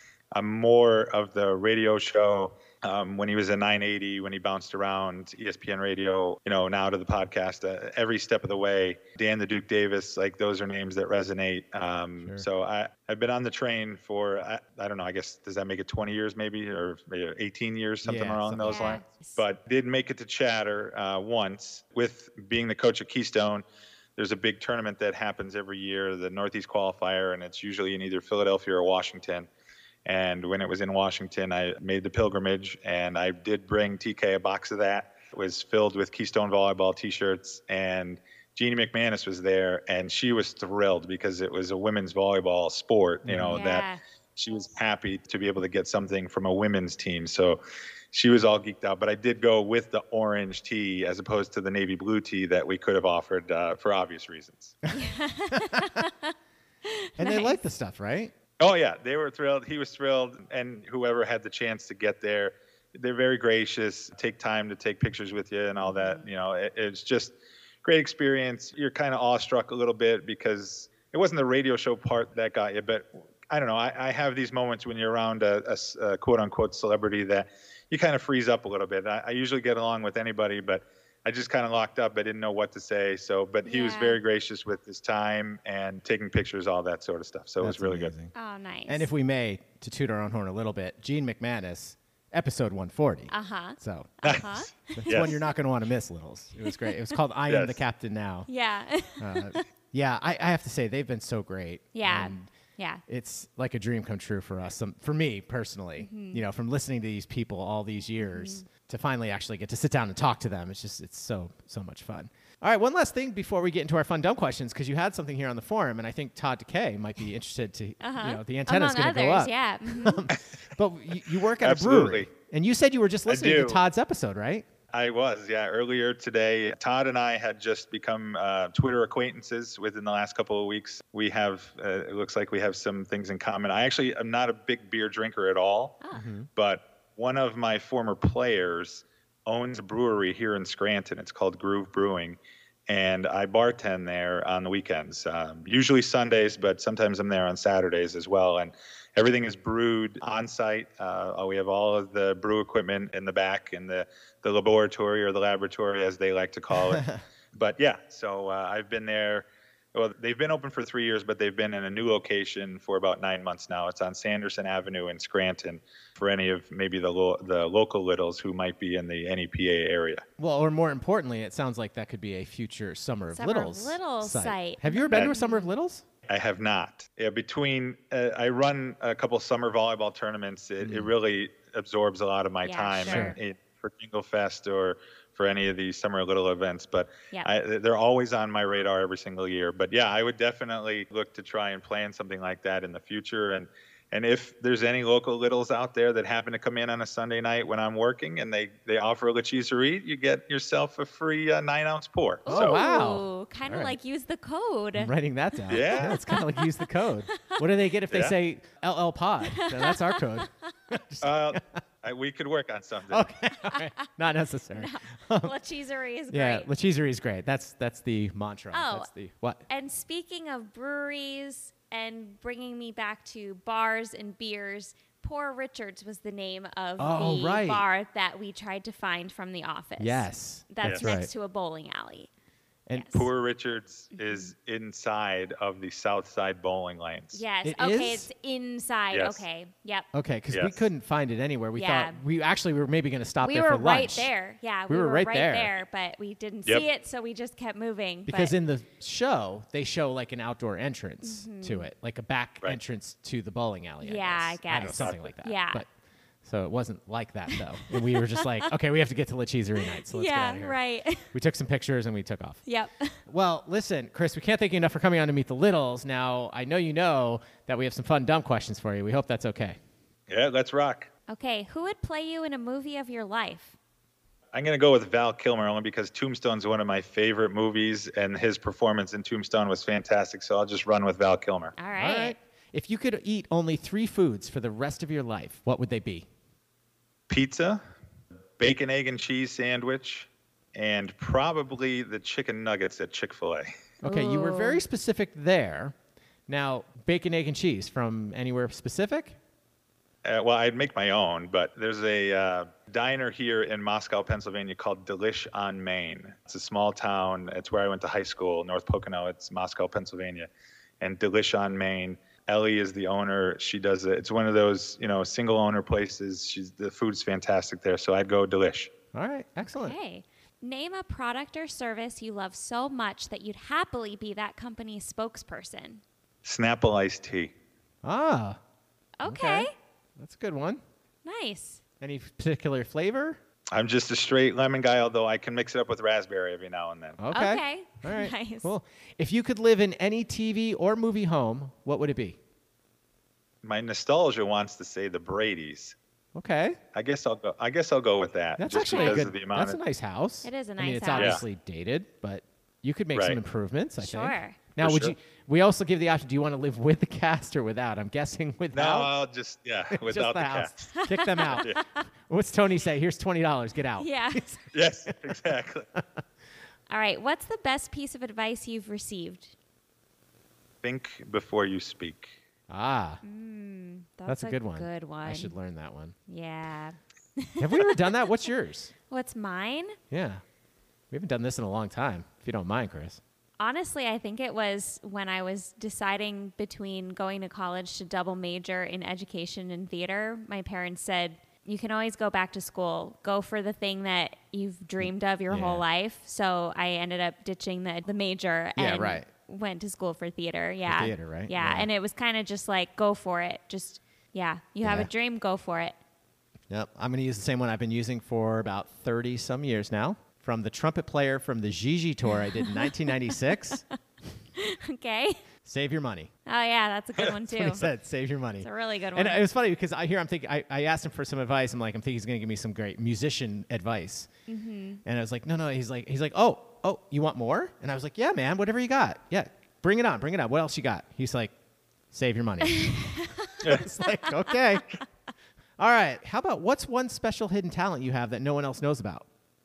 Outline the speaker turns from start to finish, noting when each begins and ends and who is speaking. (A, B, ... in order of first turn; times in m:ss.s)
0:00.3-0:23.6 A
0:18.0-0:19.0 B
0:18.6-0:19.4 C
0:24.2-0:29.5 A
0:30.0-0:47.6 A
0:43.2-0:43.6 B
0:43.5-0:44.0 C
0:48.1-0:54.8 A
0:54.9-0:56.3 C
0:55.5-0:56.0 B
0:56.9-0:57.6 C
0:57.2-0:58.3 B
0:58.6-1:28.1 A
1:05.8-1:06.2 C
1:23.6-1:24.2 C
1:27.6-1:28.3 B
1:28.3-1:29.1 C
1:28.9-1:34.4 B
1:33.3-1:35.4 C
1:34.2-1:34.5 A
1:35.0-1:38.5 B
1:35.1-1:35.3 A
1:36.6-1:37.2 C
1:37.5-1:37.8 A
1:38.5-1:39.6 C
1:39.2-1:42.5 B
1:41.9-1:43.0 C
1:43.1-2:04.6 B
1:46.0-1:46.4 C
1:48.2-1:48.6 C
1:58.0-2:00.2 C
2:01.6-2:02.3 A
2:03.3-2:03.8 A
2:04.9-2:16.0 A
2:16.1-2:16.5 B
2:16.6-2:50.2 A
2:36.9-2:37.2 B
2:50.4-2:56.0 B
2:53.3-2:55.7 C
2:56.3-3:22.8 A
3:00.8-3:01.1 B
3:02.6-3:03.4 C
3:03.0-3:03.4 B
3:22.4-3:25.1 C
3:22.5-3:24.0 B
3:25.0-3:31.8 B
3:25.7-3:27.6 C
3:25.7-3:26.2 A
3:28.1-3:28.4 A
3:29.5-3:30.5 C
3:31.2-3:33.3 A
3:33.1-3:35.5 B
3:33.7-3:34.1 C
3:34.7-3:36.7 C
3:36.3-3:39.6 B
3:38.7-3:39.1 C
3:39.7-3:52.3 C
3:47.0-3:47.8 B
3:50.0-3:51.3 B
3:52.9-3:53.1 B
3:52.9-3:53.2 C
3:53.1-3:57.4 A
3:54.1-3:54.5 C
3:57.3-4:00.1 C
3:57.6-3:58.3 B
3:59.1-3:59.4 A
4:00.1-4:04.3 B
4:00.5-4:00.8 A
4:01.8-4:02.2 C
4:03.4-4:08.5 C
4:04.9-4:05.8 B
4:08.3-4:15.9 B
4:11.2-4:11.9 C
4:14.0-4:15.8 C
4:16.4-4:20.8 B
4:17.5-4:18.7 C
4:19.8-4:21.3 C
4:21.3-4:22.6 B
4:22.6-4:23.2 C
4:23.3-4:29.8 B
4:30.3-4:31.1 A
4:31.3-4:33.8 C
4:34.5-4:41.7 A
4:41.8-4:42.4 C
4:42.0-4:46.3 B
4:47.3-4:47.8 A
4:48.6-4:53.7 A
4:54.0-4:55.9 B
4:54.0-4:54.8 C
4:56.5-4:59.4 B
5:00.2-5:10.5 A
5:11.0-5:18.9 A
5:19.1-5:20.0 B
5:19.8-5:26.0 C
5:26.4-5:27.5 A
5:28.0-5:28.6 B
5:29.2-5:29.7 C
5:29.2-5:30.8 B
5:31.2-5:31.8 C
5:32.0-5:33.4 B
5:33.7-5:37.2 A
5:37.2-5:42.4 B
5:37.3-5:38.7 C
5:43.6-5:45.9 A
5:46.3-5:46.8 B
5:46.9-5:49.8 A
5:48.6-5:59.1 B
5:48.8-5:49.2 C
5:50.4-5:51.4 C
5:54.0-5:54.6 C
5:54.8-5:55.1 A
5:58.7-6:00.7 A
5:59.9-6:04.6 B
6:01.0-6:02.0 C
6:01.5-6:01.8 A
6:04.0-6:04.6 C
6:04.7-6:05.9 A
6:06.9-6:09.5 C
6:10.8-6:12.3 A
6:12.7-6:13.2 B
6:13.2-6:15.5 C
6:14.3-6:16.1 B
6:16.3-6:18.0 C
6:17.6-6:18.9 B
6:19.1-6:20.0 C
6:20.1-6:20.4 B
6:21.1-6:23.2 B
6:23.6-6:46.0 C
6:35.0-6:35.8 B
6:38.8-6:39.3 B
6:40.8-6:41.9 B
6:44.8-6:45.1 B
6:46.7-6:53.8 B
6:52.6-6:53.8 C
6:54.6-6:55.3 C
6:55.6-6:56.3 B
6:56.5-6:57.9 C
6:57.5-7:04.3 B
6:58.6-6:59.4 C
7:04.5-7:05.0 C
7:05.0-7:11.5 B
7:12.1-7:14.8 B
7:12.8-7:13.5 C
7:15.8-7:19.2 B